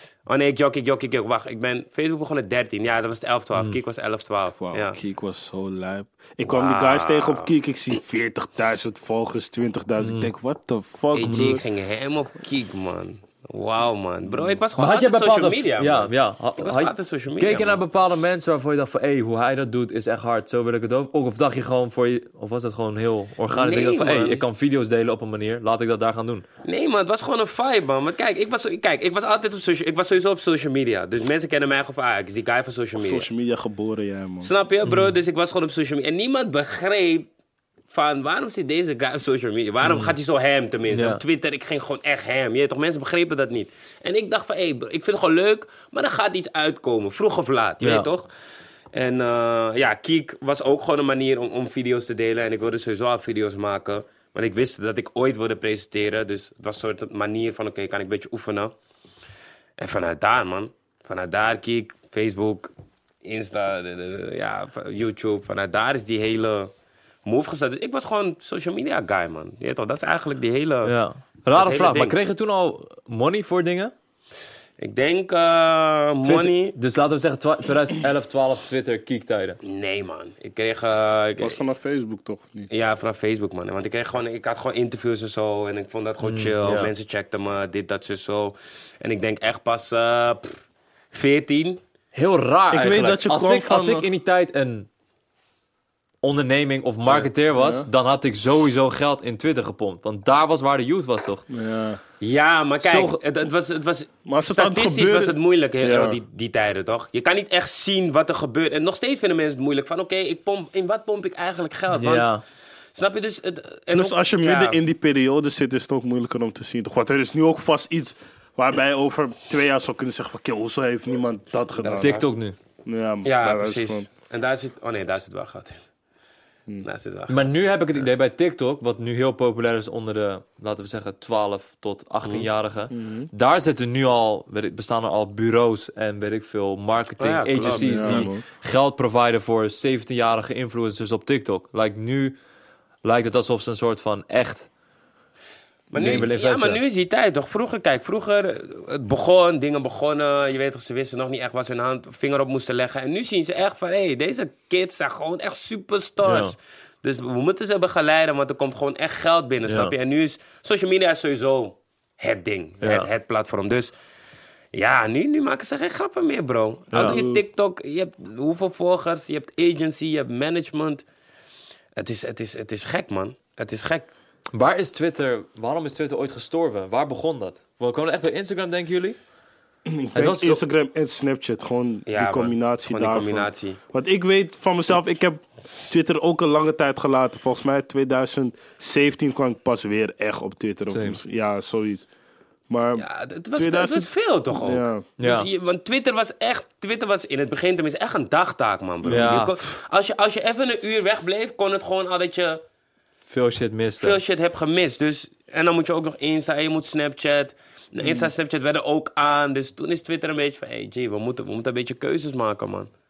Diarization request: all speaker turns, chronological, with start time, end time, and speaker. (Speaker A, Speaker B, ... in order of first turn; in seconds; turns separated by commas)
Speaker A: 0.3-5.0, Speaker B: 4.6-11.6, Speaker A: 6.5-7.5, Speaker C: 10.0-10.3, Speaker A: 11.1-17.8, Speaker C: 11.2-11.6, Speaker B: 14.3-14.6, Speaker C: 14.8-26.4, Speaker A: 23.5-24.4, Speaker A: 26.6-33.3, Speaker B: 33.0-34.5, Speaker A: 34.4-37.3, Speaker C: 34.9-35.1, Speaker A: 37.9-48.3, Speaker C: 39.8-40.1, Speaker C: 40.9-41.2, Speaker C: 47.8-48.1, Speaker A: 48.9-58.7, Speaker A: 59.8-62.7, Speaker A: 63.2-66.7, Speaker A: 67.2-70.9, Speaker C: 70.8-73.9, Speaker A: 71.5-72.2, Speaker A: 74.8-76.8, Speaker C: 76.2-79.6, Speaker A: 79.6-81.6, Speaker B: 81.4-82.7, Speaker A: 82.7-91.8, Speaker C: 86.2-86.9, Speaker C: 92.1-94.9, Speaker B: 92.7-94.1, Speaker C: 96.2-101.5, Speaker B: 97.5-97.9, Speaker B: 101.5-102.0, Speaker A: 102.2-112.3, Speaker C: 102.8-103.2, Speaker B: 104.2-106.2, Speaker C: 111.9-112.4, Speaker A: 113.0-114.8, Speaker B: 113.9-122.2, Speaker A: 121.8-122.2, Speaker C: 122.0-122.5, Speaker B: 122.8-124.1, Speaker A: 123.2-125.8, Speaker A: 126.8-127.4, Speaker C: 127.3-142.4, Speaker B: 132.9-133.3, Speaker A: 137.2-138.3, Speaker B: 137.7-138.4, Speaker C: 143.0-144.7, Speaker A: 145.9-163.9, Speaker C: 145.9-146.8, Speaker C: 156.2-156.6, Speaker C: 159.7-159.9, Speaker C: 162.8-163.1, Speaker A: 164.7-171.1, Speaker B: 166.9-167.4, Speaker C: 166.9-167.2, Speaker A: 171.9-174.1, Speaker C: 174.5-179.2, Speaker B: 179.9-192.1, Speaker C: 180.1-180.6, Speaker A: 182.1-183.8, Speaker C: 190.9-191.2, Speaker B: 192.7-193.1, Speaker A: 193.0-202.6, Speaker B: 193.6-195.1, Speaker C: 195.2-195.5, Speaker B: 199.0-199.3, Speaker C: 199.1-199.5, Speaker C: 203.3-204.2, Speaker A: 204.0-212.9, Speaker B: 208.0-208.3